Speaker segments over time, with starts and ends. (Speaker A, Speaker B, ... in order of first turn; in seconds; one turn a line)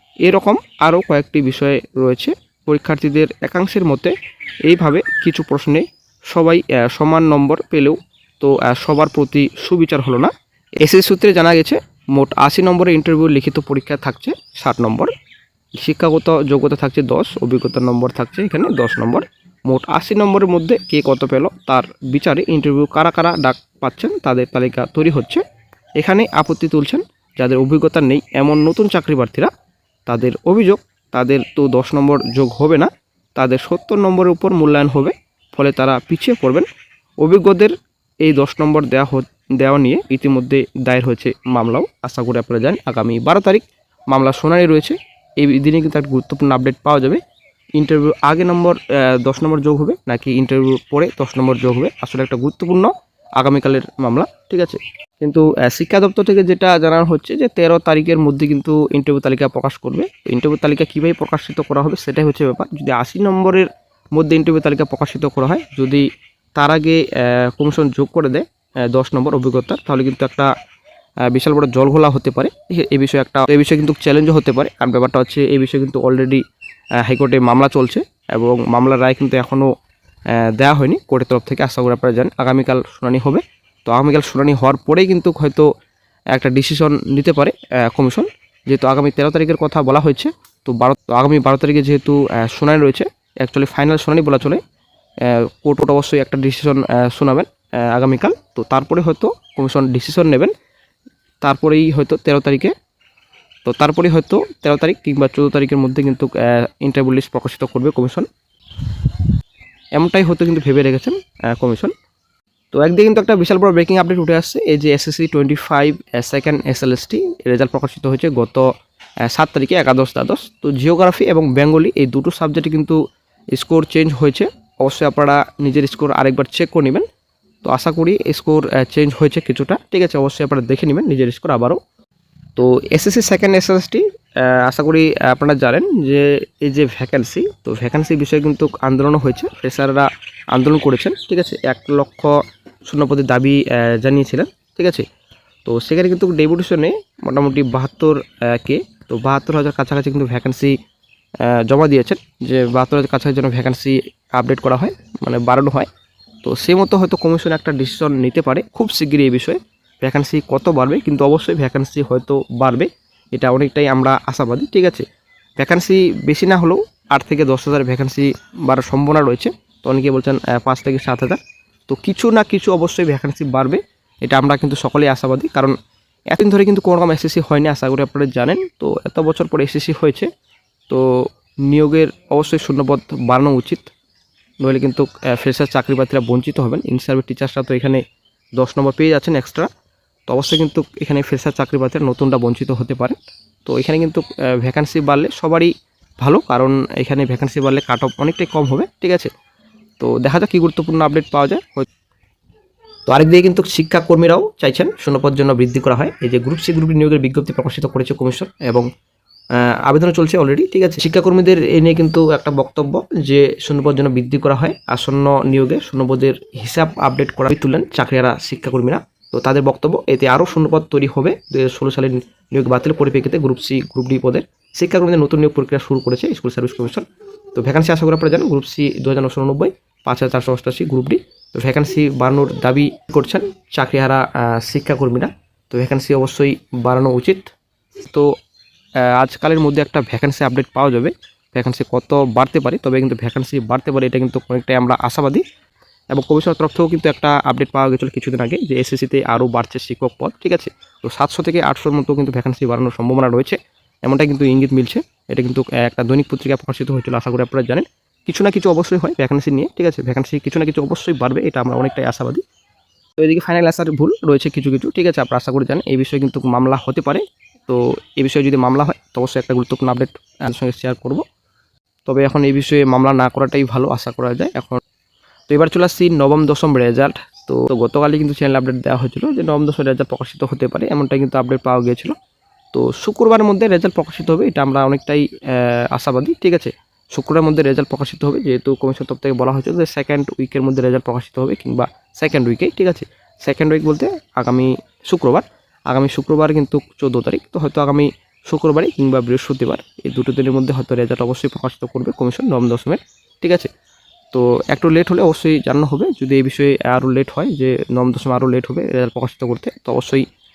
Speaker A: 0.2-4.1
Speaker A: 4.7-15.1
Speaker A: 15.8-25.4
Speaker A: 26.0-29.5
Speaker A: 30.1-36.7
Speaker A: 37.2-47.2
Speaker A: 47.8-70.5
Speaker A: 71.3-76.4
Speaker A: 77.0-79.7
Speaker A: 80.3-85.7
Speaker A: 86.3-94.6
Speaker A: 95.2-100.5
Speaker A: 101.4-102.7
Speaker A: 103.7-108.3
Speaker A: 110.0-111.9
Speaker A: 112.7-118.7
Speaker A: 119.2-123.0
Speaker A: 123.5-127.0
Speaker A: 127.6-131.8
Speaker A: 132.6-145.1
Speaker A: 145.7-150.8
Speaker A: 151.4-155.9
Speaker A: 156.4-165.1
Speaker A: 165.6-175.8
Speaker A: 176.3-180.3
Speaker A: 181.7-183.9
Speaker A: 184.6-188.0
Speaker A: 188.6-189.7
Speaker A: 190.3-199.3
Speaker A: 200.0-201.9
Speaker A: 203.1-208.9
Speaker A: 209.6-237.5
Speaker A: 238.1-238.3
Speaker A: 239.0-245.4
Speaker A: 246.1-262.4
Speaker A: 263.2-271.2
Speaker A: 272.1-274.8
Speaker A: 275.5-282.1
Speaker A: 282.7-303.7
Speaker A: 304.3-310.2